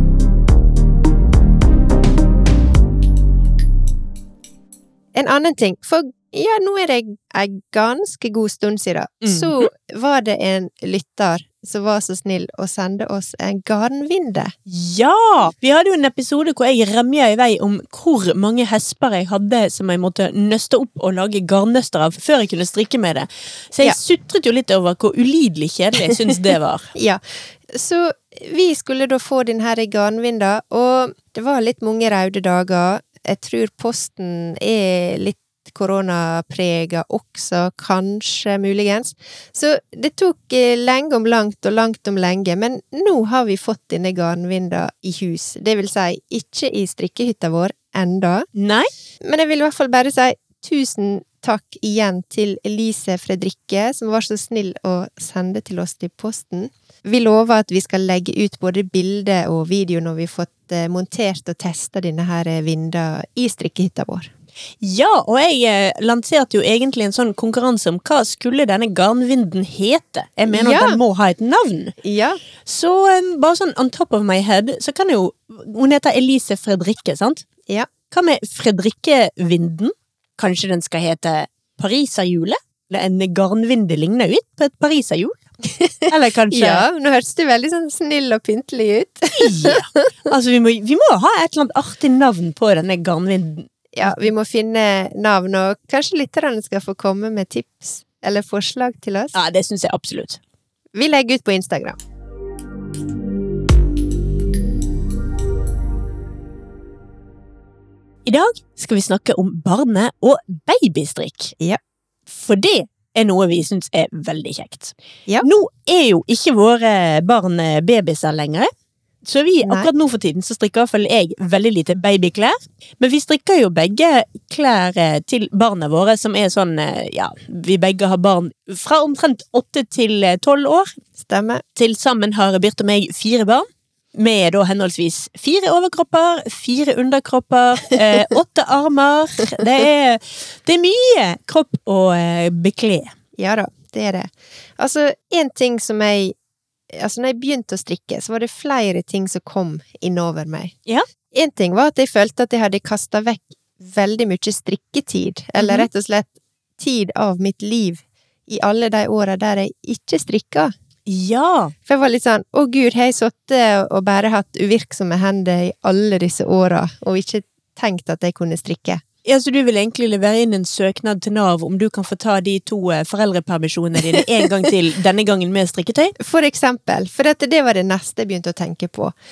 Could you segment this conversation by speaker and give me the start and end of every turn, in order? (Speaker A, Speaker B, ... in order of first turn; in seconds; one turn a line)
Speaker A: 5.1-14.5
Speaker B: 9.2-9.6
Speaker B: 14.7-26.9
Speaker A: 26.9-48.5
Speaker B: 48.5-48.9
Speaker A: 49.2-64.3
Speaker B: 64.8-71.9
Speaker A: 70.5-71.0
Speaker A: 72.0-72.4
Speaker B: 72.6-77.5
Speaker B: 78.1-85.4
Speaker A: 85.7-90.1
Speaker B: 86.1-86.8
Speaker B: 89.3-94.1
Speaker A: 93.9-99.3
Speaker B: 99.3-100.4
Speaker A: 100.9-102.0
Speaker B: 108.2-111.5
Speaker B: 112.3-118.7
Speaker B: 119.2-130.9
Speaker A: 119.6-119.9
Speaker A: 131.2-131.6
Speaker B: 131.8-143.1
Speaker A: 143.4-146.3
Speaker A: 146.9-150.7
Speaker A: 151.3-160.7
Speaker B: 155.6-155.9
Speaker B: 161.1-161.7
Speaker A: 161.8-169.0
Speaker B: 169.2-176.1
Speaker A: 176.2-179.1